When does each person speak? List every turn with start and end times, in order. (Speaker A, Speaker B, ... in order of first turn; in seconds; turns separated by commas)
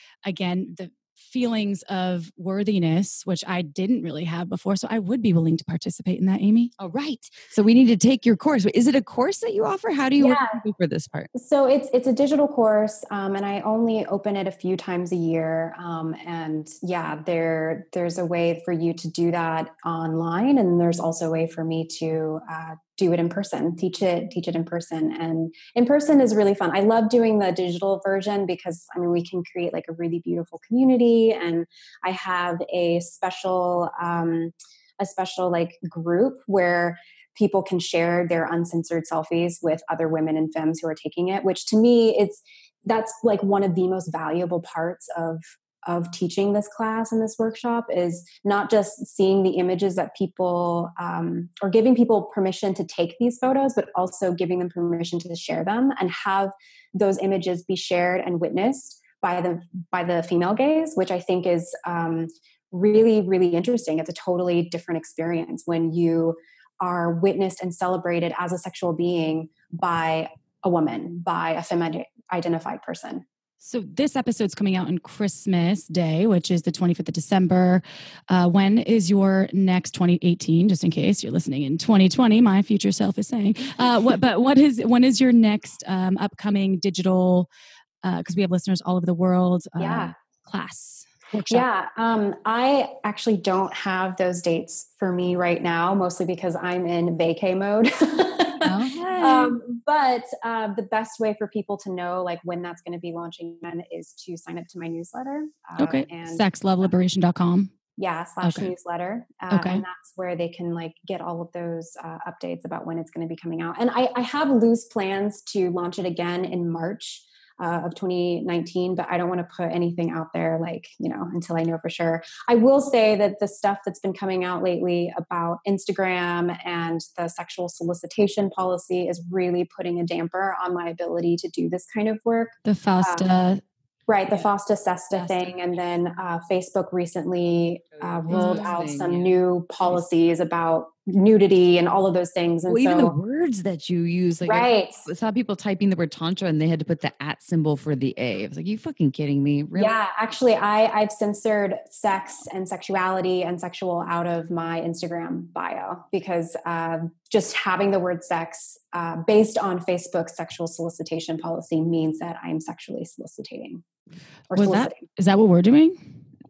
Speaker A: 0.2-6.7, Speaker B: 6.8-11.3, Speaker C: 10.2-10.6, Speaker C: 11.3-73.2, Speaker A: 73.6-87.5, Speaker A: 88.0-91.7, Speaker C: 89.8-90.1, Speaker C: 91.5-106.4, Speaker A: 98.6-99.5, Speaker A: 105.8-107.7, Speaker C: 108.0-133.3, Speaker A: 108.4-108.7, Speaker A: 109.5-109.8, Speaker A: 132.7-133.6, Speaker C: 134.1-143.1, Speaker A: 135.1-135.6, Speaker B: 138.1-140.0, Speaker A: 138.3-138.7, Speaker B: 142.7-149.9, Speaker C: 144.4-145.0, Speaker C: 149.7-163.8, Speaker C: 164.5-165.0, Speaker A: 164.5-166.2